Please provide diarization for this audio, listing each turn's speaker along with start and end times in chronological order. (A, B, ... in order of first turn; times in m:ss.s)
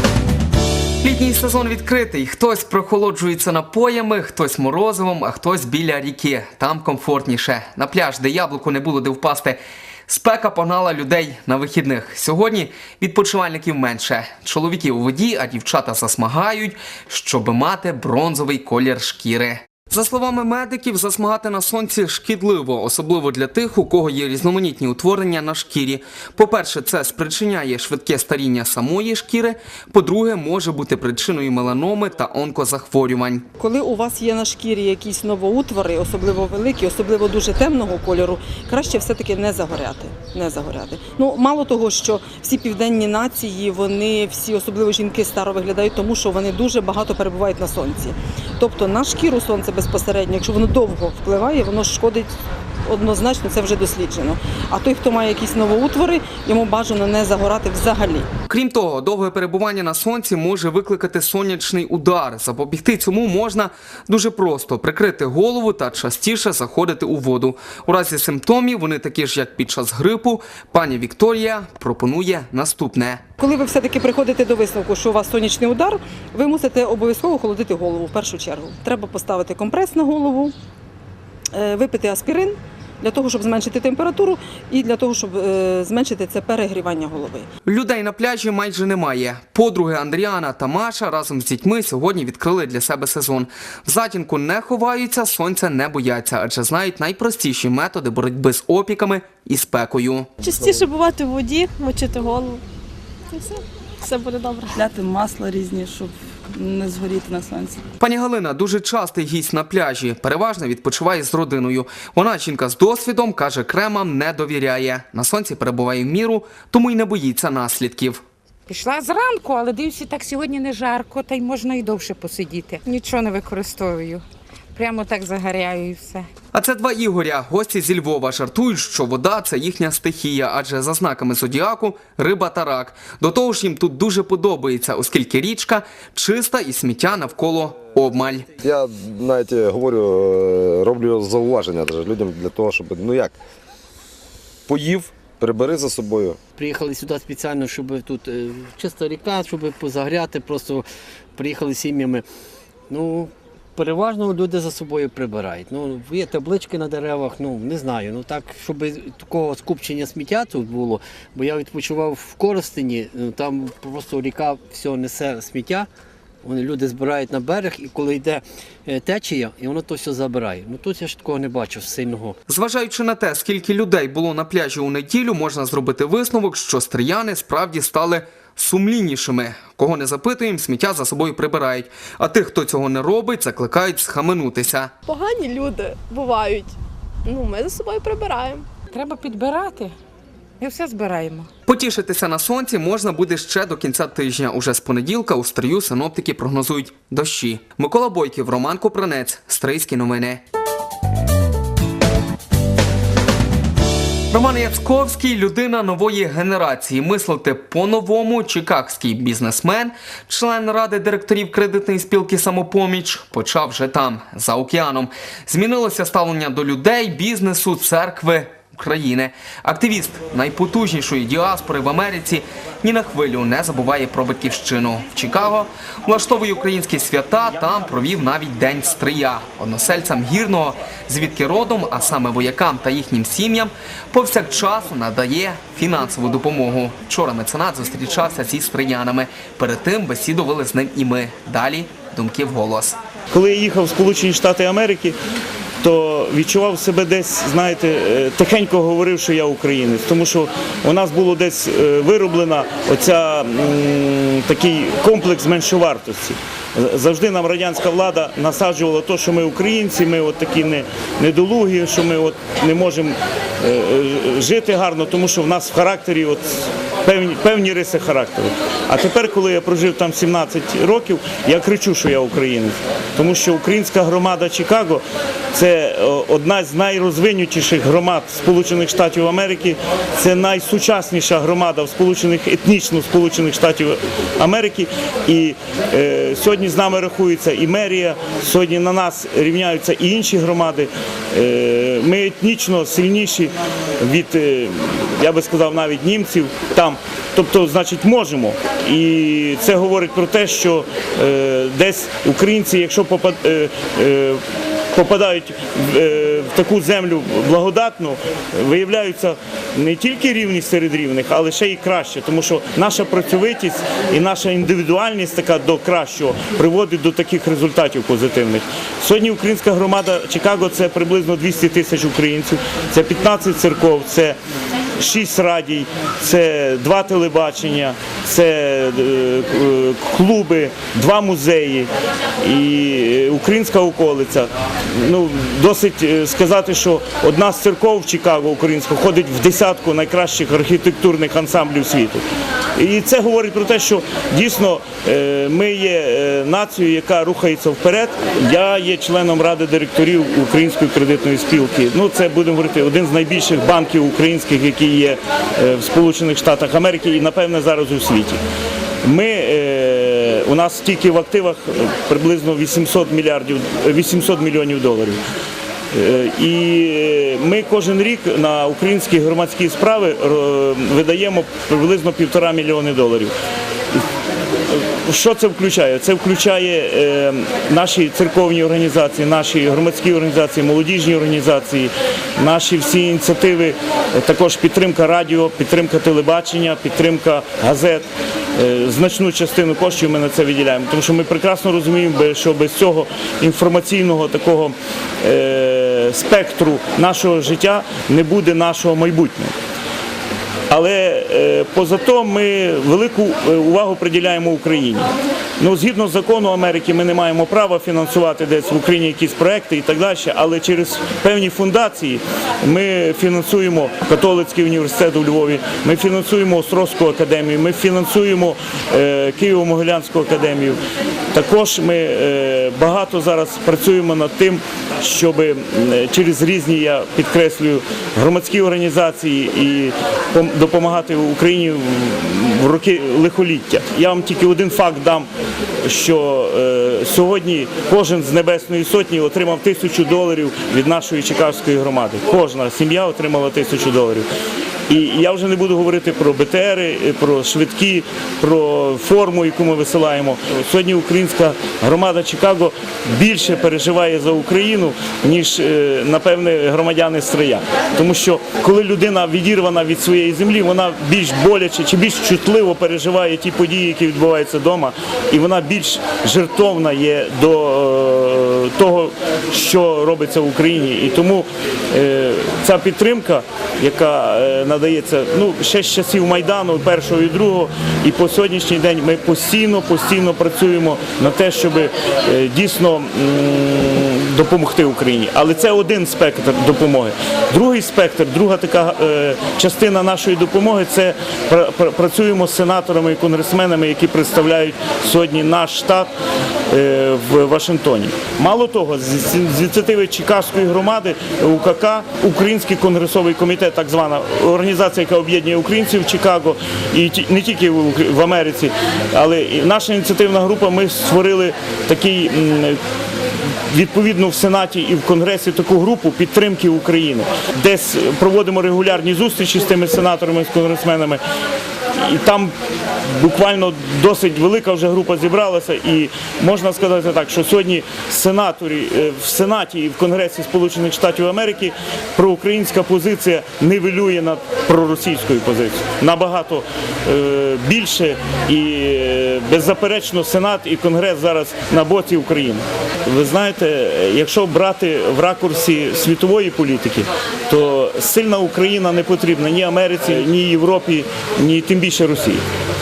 0:01.0-0:33.4 A
0:33.6-0:52.3 B
0:52.9-0:58.3 B
0:58.5-1:13.2 A
1:13.4-1:20.5 B
1:21.5-1:27.5 B
1:27.7-1:40.3 A
1:40.4-1:42.6 C
1:40.4-1:42.3 D
1:43.3-1:46.1 C
1:44.1-1:46.1 D
1:46.6-1:47.8 D
1:46.8-1:47.5 C
1:48.0-1:58.2 A
1:58.7-2:04.2 E
2:04.8-2:06.3 E
2:06.5-2:18.5 A
2:18.6-2:23.3 F
2:24.7-2:26.4 F
2:26.6-2:32.2 G
2:32.9-2:45.9 G
2:46.4-2:52.4 G
2:52.5-3:04.9 A
3:05.1-3:08.7 C
3:08.9-3:09.9 E
3:10.6-3:11.5 E
3:11.7-3:20.4 A
3:24.3-4:03.0 A
4:03.3-4:05.2 H
4:05.8-5:04.4 H
5:04.9-5:24.4 H
5:25.0-5:42.2 H
5:42.8-5:58.4 H
5:59.0-6:05.2 H
6:05.9-6:13.3 H
6:14.7-6:39.5 H
6:40.7-6:45.1 H
6:45.6-7:00.8 H
7:01.3-7:15.3 H
7:15.8-7:24.3 H
7:24.9-8:16.1 H
8:16.7-8:32.8 H
8:33.6-8:41.2 H
8:41.9-8:42.5 H
8:43.0-9:12.4 H